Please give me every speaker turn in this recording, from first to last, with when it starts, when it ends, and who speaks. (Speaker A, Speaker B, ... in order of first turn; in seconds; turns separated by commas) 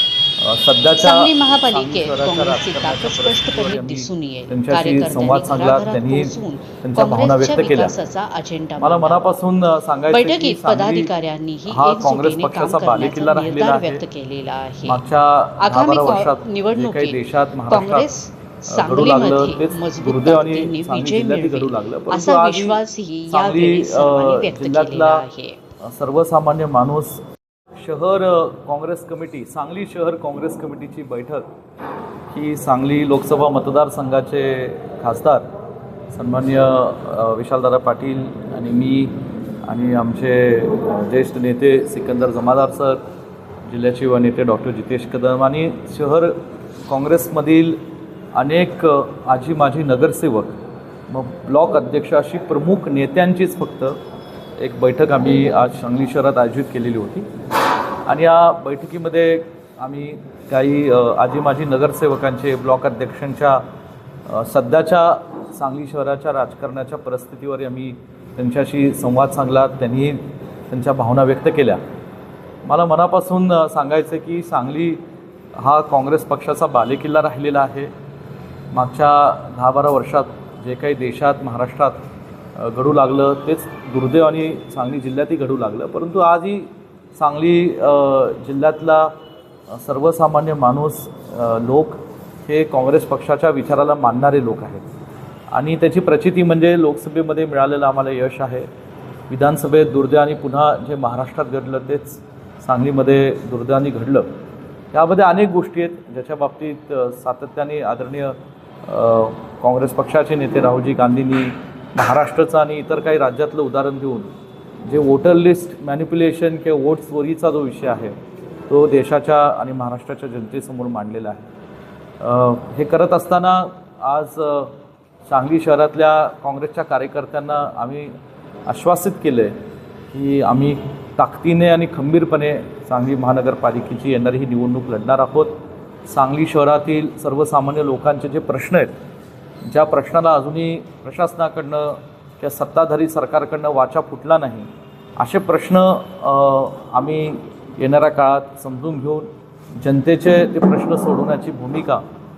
Speaker A: 0.4-8.0, Speaker B: 0.9-9.4, Speaker A: 8.8-11.1, Speaker B: 10.1-15.0, Speaker A: 11.7-14.0, Speaker A: 14.8-18.1, Speaker B: 15.6-25.6, Speaker A: 18.7-22.8, Speaker A: 23.3-25.2, Speaker A: 25.8-27.2, Speaker A: 27.8-31.5, Speaker A: 32.3-35.5, Speaker A: 36.1-43.0, Speaker A: 43.6-47.8, Speaker A: 48.3-50.5, Speaker A: 51.1-54.0, Speaker A: 54.6-57.3, Speaker A: 58.0-63.6, Speaker A: 64.3-71.8, Speaker A: 72.6-75.0, Speaker A: 75.6-77.9, Speaker A: 78.7-82.0, Speaker A: 82.6-89.2, Speaker A: 89.7-94.8, Speaker A: 95.5-98.7, Speaker A: 99.3-104.3, Speaker A: 104.9-114.3, Speaker A: 114.8-118.1, Speaker A: 118.7-121.5, Speaker A: 122.2-124.8, Speaker A: 125.2-128.1, Speaker A: 128.7-129.6, Speaker A: 130.1-135.5, Speaker A: 136.1-138.9, Speaker A: 139.6-152.0